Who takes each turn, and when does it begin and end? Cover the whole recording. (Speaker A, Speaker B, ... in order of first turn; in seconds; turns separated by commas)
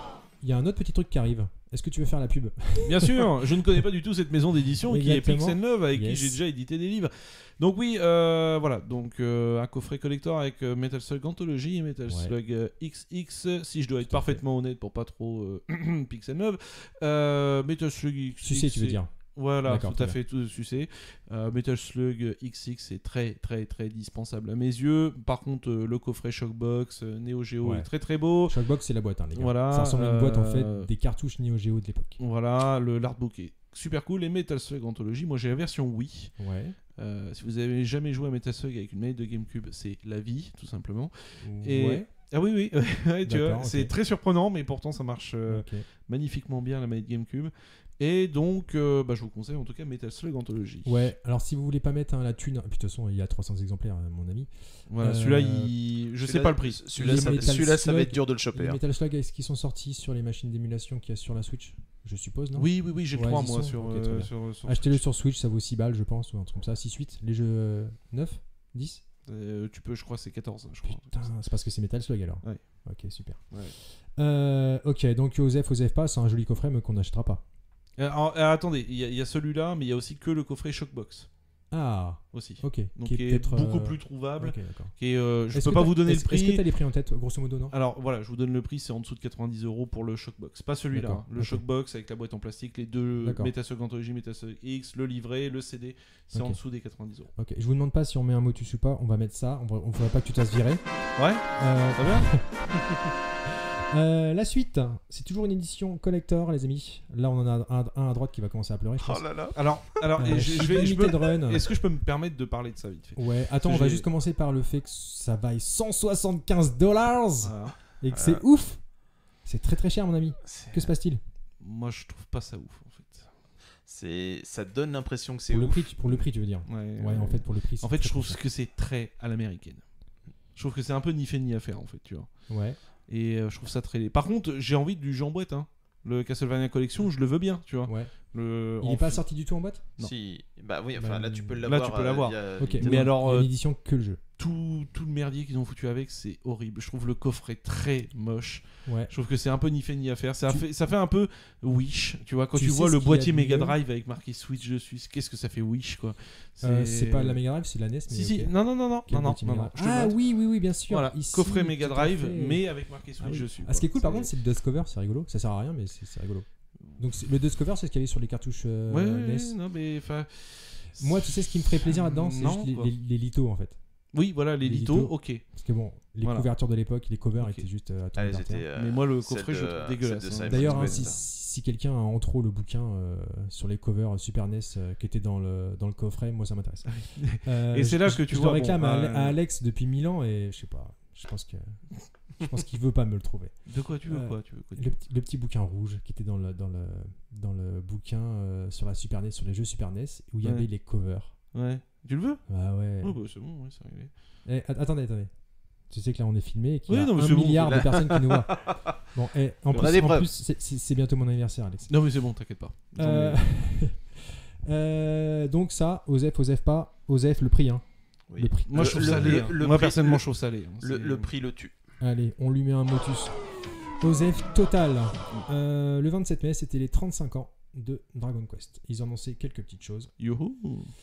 Speaker A: 0.4-3.8, Speaker B: 2.8-28.6, Speaker A: 4.8-6.4, Speaker A: 12.1-12.3, Speaker A: 14.0-14.4, Speaker A: 18.4-20.2, Speaker A: 27.6-27.9, Speaker A: 28.4-32.2, Speaker B: 29.3-30.9, Speaker B: 32.2-36.3, Speaker A: 36.4-36.8, Speaker B: 37.0-51.1, Speaker A: 41.4-42.1, Speaker A: 43.2-43.9, Speaker A: 45.5-45.9, Speaker A: 50.8-55.7, Speaker B: 54.9-57.5, Speaker C: 56.2-58.8, Speaker A: 56.9-69.0, Speaker B: 62.5-65.0, Speaker B: 69.3-71.3, Speaker A: 70.8-73.6, Speaker B: 73.5-73.8, Speaker A: 74.2-77.4, Speaker B: 78.0-81.3, Speaker A: 81.7-84.9, Speaker B: 82.3-86.6, Speaker A: 85.5-87.7, Speaker B: 87.7-97.3, Speaker A: 90.9-91.6, Speaker A: 93.2-93.5, Speaker A: 96.3-96.6, Speaker A: 97.3-100.8, Speaker B: 101.2-102.3, Speaker A: 101.4-102.5, Speaker A: 103.5-109.3, Speaker C: 109.0-109.6, Speaker B: 109.5-114.1, Speaker A: 110.2-111.7, Speaker A: 113.2-118.8, Speaker B: 117.4-117.8, Speaker C: 118.1-118.4, Speaker A: 119.4-121.2, Speaker C: 120.4-120.9, Speaker B: 121.6-123.3, Speaker C: 123.8-126.2, Speaker A: 125.5-128.4, Speaker B: 126.7-129.8, Speaker B: 130.5-132.3, Speaker A: 132.5-132.8, Speaker B: 133.1-139.2, Speaker A: 137.8-138.1, Speaker A: 138.8-139.9, Speaker C: 140.0-143.1, Speaker A: 140.9-141.6, Speaker B: 141.6-143.5, Speaker A: 142.6-144.2, Speaker B: 144.4-157.4, Speaker A: 148.8-149.1, Speaker A: 152.5-153.8, Speaker A: 156.6-166.4, Speaker B: 158.1-160.2, Speaker B: 160.9-164.3, Speaker A: 167.0-169.6, Speaker B: 168.9-172.9, Speaker A: 171.0-173.8, Speaker B: 174.1-175.4, Speaker A: 174.6-178.7, Speaker B: 176.2-176.5, Speaker B: 177.4-177.7, Speaker C: 178.1-181.2, Speaker B: 178.8-181.1, Speaker A: 180.5-191.8, Speaker B: 186.9-189.4, Speaker A: 192.4-201.3, Speaker B: 193.7-194.9, Speaker B: 200.4-200.7, Speaker B: 201.5-202.4, Speaker A: 202.5-203.2, Speaker B: 203.0-204.1, Speaker A: 204.4-205.3, Speaker A: 205.9-211.9, Speaker B: 206.9-207.9, Speaker C: 207.6-208.9, Speaker C: 209.7-210.3, Speaker B: 211.9-213.4, Speaker A: 213.0-217.8, Speaker C: 218.3-220.2, Speaker A: 218.3-219.6, Speaker B: 218.7-221.3, Speaker C: 220.8-221.7, Speaker A: 222.0-223.4, Speaker A: 224.0-230.1, Speaker B: 230.2-230.9